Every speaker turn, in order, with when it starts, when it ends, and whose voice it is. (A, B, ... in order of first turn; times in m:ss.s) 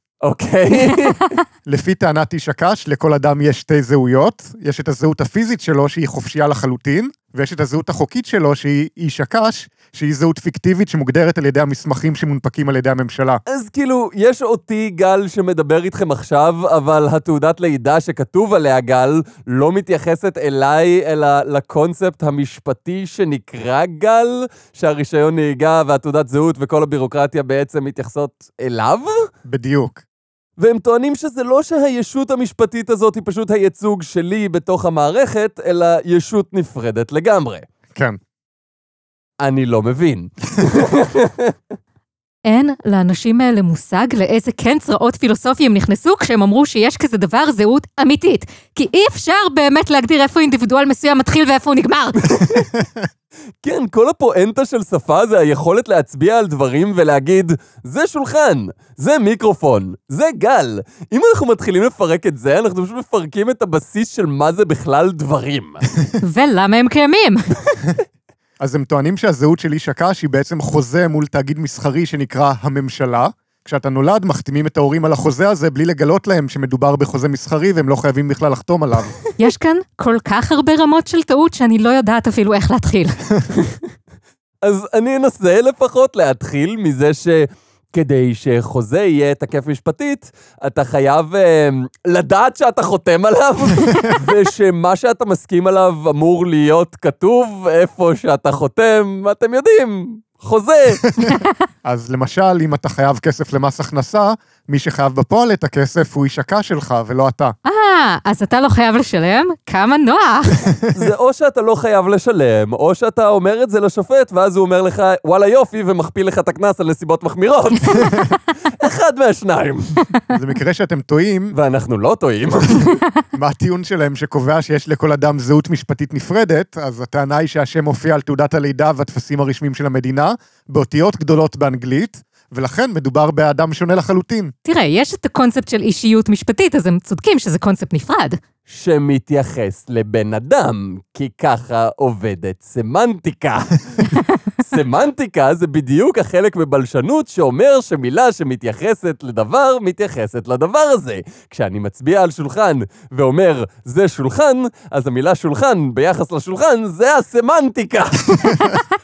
0:00.2-0:01.4 A
0:01.7-0:13.4 B
0:13.5-0:29.2 A
0:29.4-0:30.0 B
0:30.6-0:37.6 A
0:37.9-0:38.2 B
0:39.4-0:41.5 A
0:42.4-0:52.4 C
0:52.3-0:52.6 A
0:52.7-0:53.0 B
0:53.6-1:05.8 A
1:06.2-1:07.6 C
1:08.6-1:19.1 B
1:19.4-1:23.2 C
1:23.6-1:23.8 A
1:24.6-1:41.0 A
1:41.1-1:47.5 B
1:47.6-1:50.6 C
1:50.9-1:58.1 A
1:58.8-1:59.9 A
2:00.3-2:01.6 B
2:01.5-2:03.0 A
2:03.3-2:14.5 B
2:14.6-2:18.4 C
2:18.7-2:24.1 A
2:24.7-2:38.3 A
2:38.4-2:38.8 C